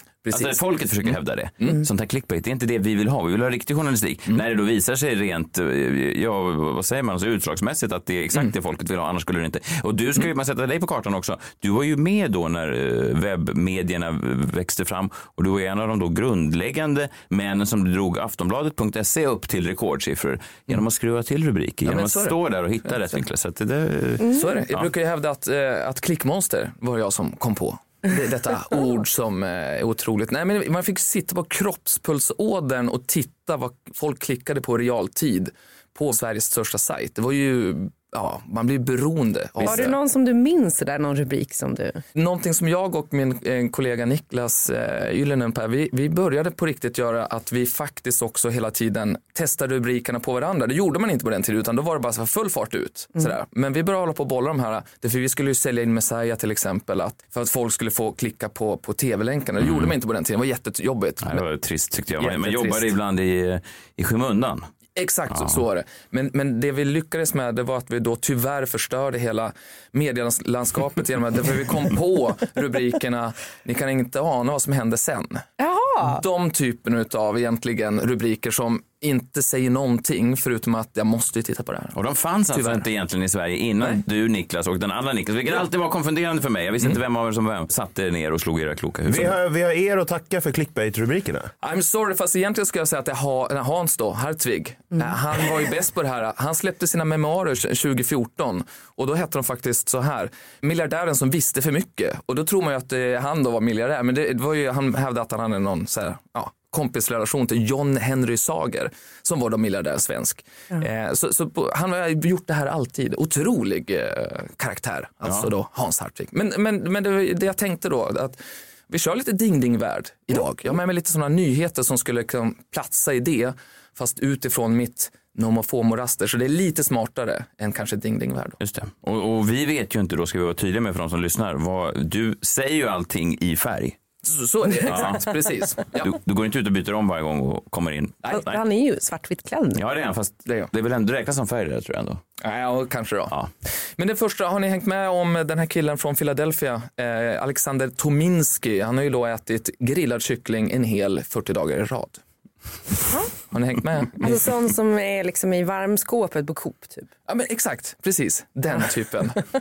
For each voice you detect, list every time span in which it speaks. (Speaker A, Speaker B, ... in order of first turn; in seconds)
Speaker A: 0.3-1.8, 21.9-22.4, 24.3-40.0, 42.1-61.4, 62.2-63.0, 65.0-75.5, 76.0-82.0, 82.5-82.9, 91.6-128.6, 134.2-136.1, 142.4-143.3, 144.0-152.2, 153.5-154.4, 157.3-159.4
Speaker B: 0.3-24.9, 39.6-39.9, 59.6-60.0, 61.2-64.7, 65.3-65.6, 81.9-89.4, 128.6-134.0, 134.8-138.6, 139.8-142.2
Speaker C: 39.6-42.0, 75.6-76.2, 138.3-139.8, 153.1-153.4, 154.2-157.1
Speaker D: 89.1-91.5